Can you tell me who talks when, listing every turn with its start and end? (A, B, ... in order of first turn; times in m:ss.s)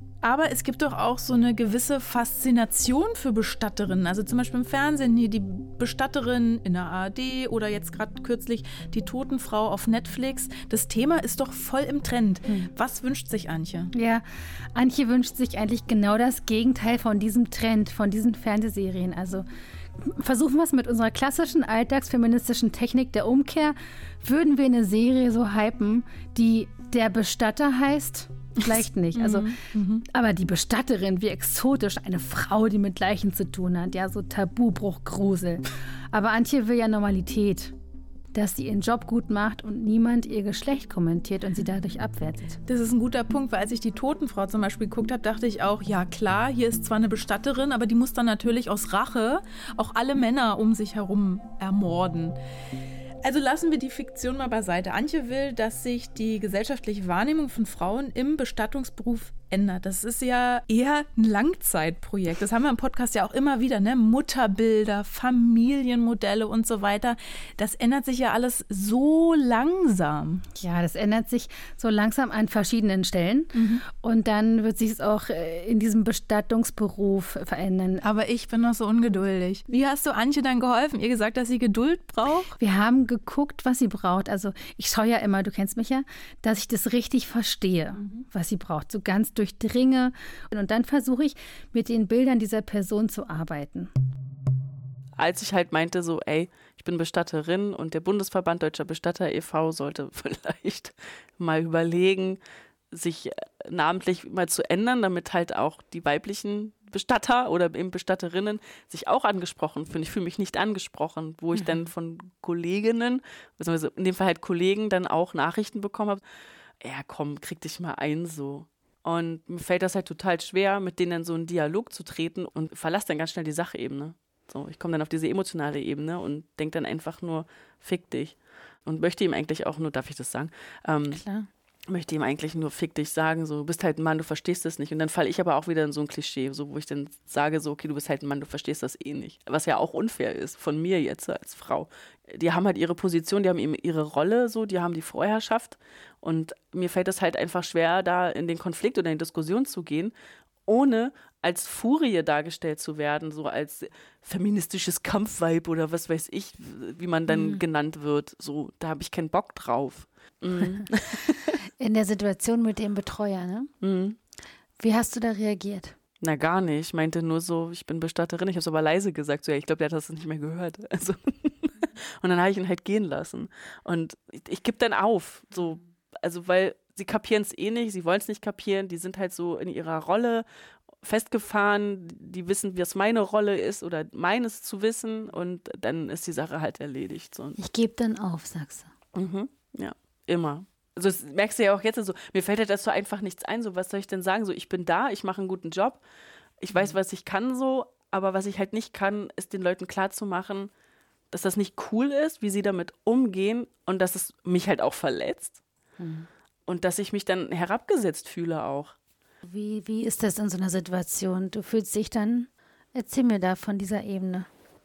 0:00.2-0:13.9 A
0:13.9-0:19.4 B
0:20.0-0:37.7 B
0:29.1-0:30.0 A
0:38.3-0:42.6 B
0:42.7-0:52.4 A
0:53.2-1:10.5 A
1:10.5-1:18.0 B
1:13.5-1:13.8 A
1:18.0-1:22.6 A
1:22.6-1:33.9 B
1:35.2-1:42.4 C
1:42.9-1:56.2 C
1:56.8-2:11.2 C
2:11.1-2:11.5 B
2:11.9-2:30.1 C
2:30.6-2:41.6 C
2:37.3-2:37.6 B
2:41.6-2:43.7 B
2:43.8-2:44.2 C
2:44.8-2:46.0 B
2:46.2-3:00.4 C
3:01.0-3:07.6 C
3:07.6-3:08.9 B
3:09.1-3:16.0 C
3:16.6-3:20.7 C
3:21.3-3:25.6 C
3:26.0-3:26.3 B
3:26.6-3:29.0 C
3:29.4-3:34.5 B